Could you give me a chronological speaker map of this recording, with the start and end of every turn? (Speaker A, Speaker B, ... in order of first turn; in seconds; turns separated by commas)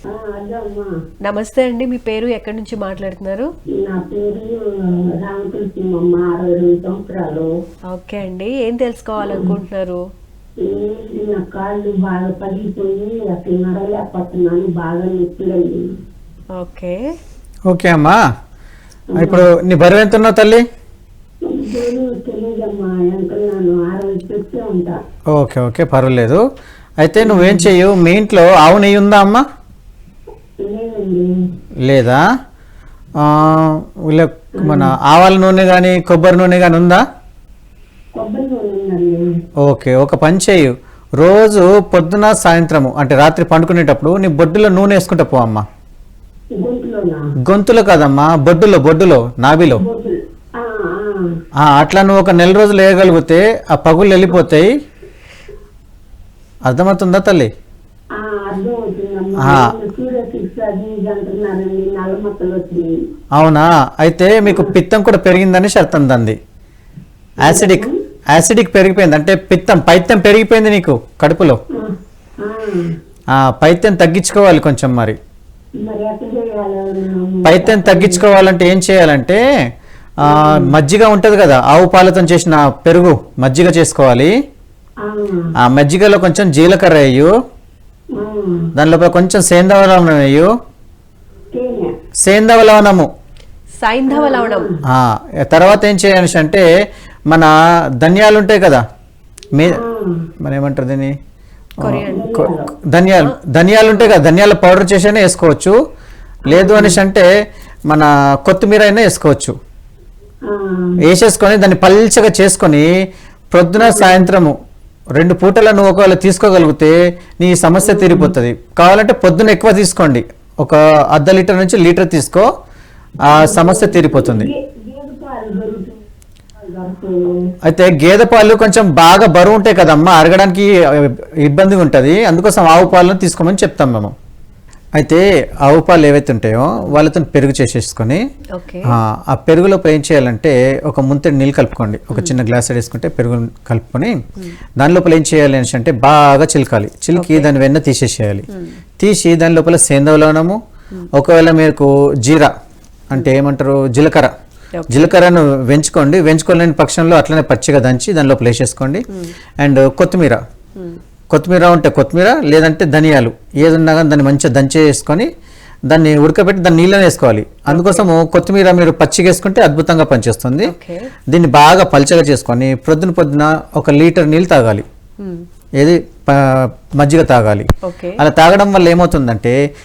Speaker A: 0.1-0.9, Speaker B: 1.3-3.5, Speaker A: 3.9-4.6, Speaker A: 5.2-7.5, Speaker B: 7.9-10.0, Speaker A: 9.2-9.5, Speaker A: 10.6-15.8, Speaker B: 16.6-17.0, Speaker C: 17.7-18.2, Speaker A: 19.1-19.4, Speaker C: 19.2-20.6, Speaker A: 21.5-25.0, Speaker C: 25.3-26.4, Speaker C: 27.0-29.4, Speaker A: 27.2-27.7, Speaker A: 30.7-31.3, Speaker C: 31.8-32.2, Speaker C: 33.2-37.0, Speaker A: 34.6-34.9, Speaker A: 38.2-39.2, Speaker C: 39.6-45.6, Speaker A: 46.6-47.2, Speaker C: 47.4-49.8, Speaker A: 49.8-51.2, Speaker C: 51.6-54.7, Speaker C: 56.7-57.5, Speaker A: 58.2-62.9, Speaker C: 59.4-59.7, Speaker C: 63.4-66.3, Speaker C: 67.4-71.6, Speaker A: 67.4-67.9, Speaker A: 72.4-72.8, Speaker C: 73.3-75.2, Speaker A: 75.8-78.2, Speaker C: 77.4-79.4, Speaker C: 80.2-84.3, Speaker A: 80.2-80.7, Speaker A: 85.0-85.5, Speaker C: 85.6-87.3, Speaker A: 88.2-88.7, Speaker C: 88.7-90.5, Speaker A: 91.5-91.9, Speaker C: 92.2-93.1, Speaker B: 93.8-94.7, Speaker A: 94.1-94.7, Speaker C: 94.8-96.7, Speaker C: 97.3-98.8, Speaker C: 99.5-99.8, Speaker A: 99.7-100.0, Speaker C: 100.4-101.1, Speaker B: 101.8-102.3, Speaker C: 101.9-105.8, Speaker A: 102.1-102.7, Speaker B: 103.9-104.1, Speaker A: 106.5-107.0, Speaker C: 106.5-107.3, Speaker C: 107.9-109.5, Speaker A: 110.5-110.9, Speaker C: 111.0-112.9, Speaker C: 113.5-114.5, Speaker A: 113.8-114.2, Speaker C: 115.2-122.5, Speaker A: 117.8-118.3, Speaker C: 123.2-124.5, Speaker A: 123.3-125.9, Speaker A: 126.6-127.1, Speaker C: 127.6-134.1, Speaker C: 135.0-138.2, Speaker B: 138.6-138.9, Speaker C: 138.9-144.2, Speaker C: 144.8-148.4, Speaker B: 147.1-147.5, Speaker B: 148.5-148.8, Speaker C: 149.0-150.6, Speaker C: 151.1-152.5, Speaker C: 153.1-154.3, Speaker B: 154.7-155.2, Speaker C: 154.9-159.0, Speaker C: 159.6-160.4, Speaker C: 161.3-165.3, Speaker C: 165.9-170.7, Speaker B: 167.7-168.1, Speaker B: 170.6-171.1, Speaker C: 171.3-174.8, Speaker B: 175.2-175.4, Speaker C: 175.8-177.7, Speaker B: 177.8-178.2, Speaker C: 178.2-179.6